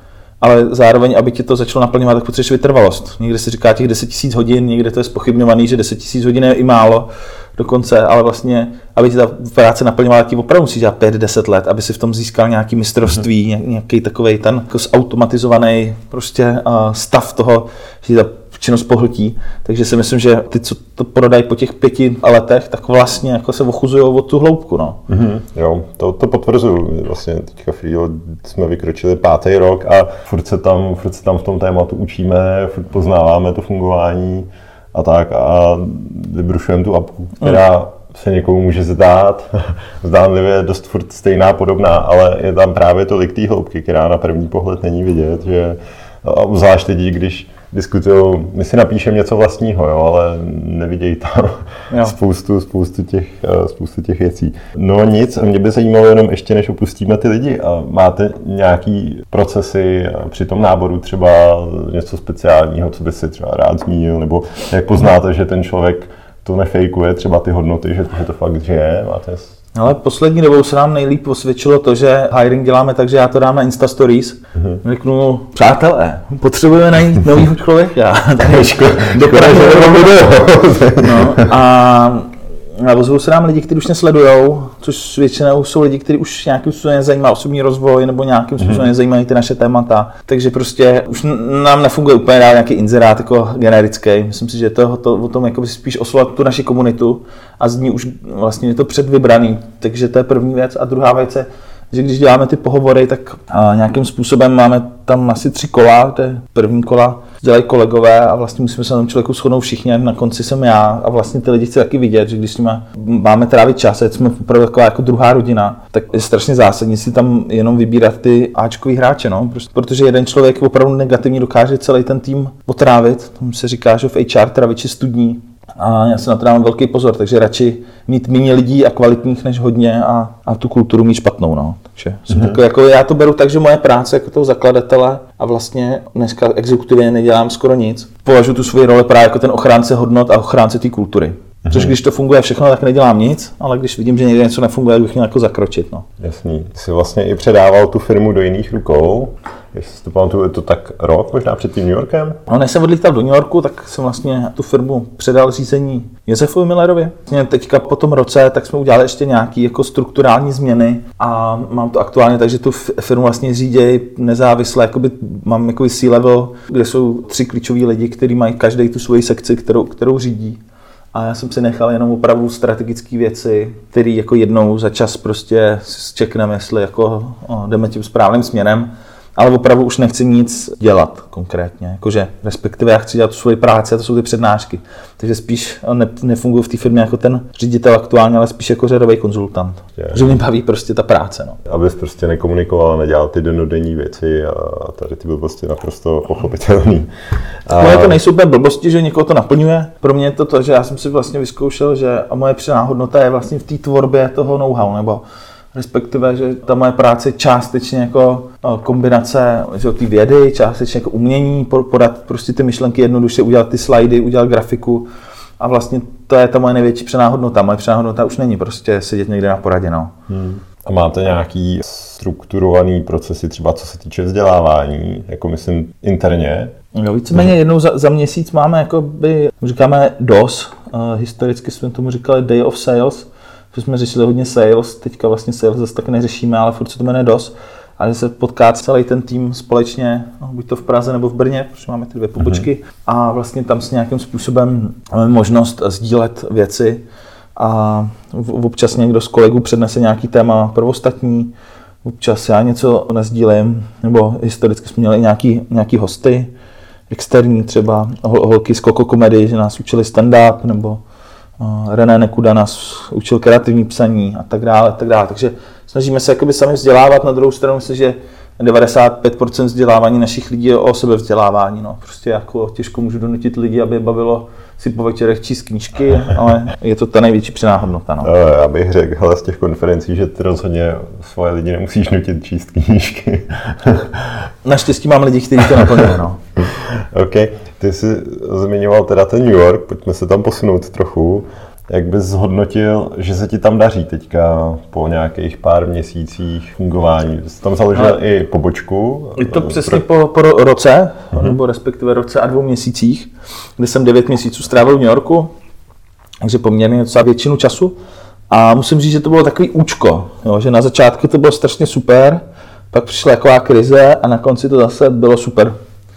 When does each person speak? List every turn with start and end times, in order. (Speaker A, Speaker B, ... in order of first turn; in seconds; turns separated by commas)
Speaker A: 0.4-25.0, Speaker B: 25.1-69.5, Speaker A: 69.8-80.3, Speaker B: 78.5-81.5, Speaker A: 81.0-146.1, Speaker B: 132.3-132.6, Speaker B: 141.7-141.9, Speaker B: 146.2-152.4, Speaker A: 152.5-170.6, Speaker A: 171.1-191.6, Speaker B: 190.0-190.3, Speaker B: 191.7-197.1, Speaker B: 197.7-198.2, Speaker A: 197.7-215.1, Speaker A: 215.6-220.1, Speaker B: 220.3-226.7, Speaker A: 226.9-247.0, Speaker B: 242.4-242.7, Speaker A: 247.6-251.5, Speaker A: 252.0-256.5, Speaker A: 257.1-261.0, Speaker A: 261.6-278.3, Speaker B: 278.2-284.4, Speaker A: 284.6-286.4, Speaker B: 286.9-300.0, Speaker A: 299.4-305.5, Speaker A: 306.4-308.0, Speaker A: 308.5-315.8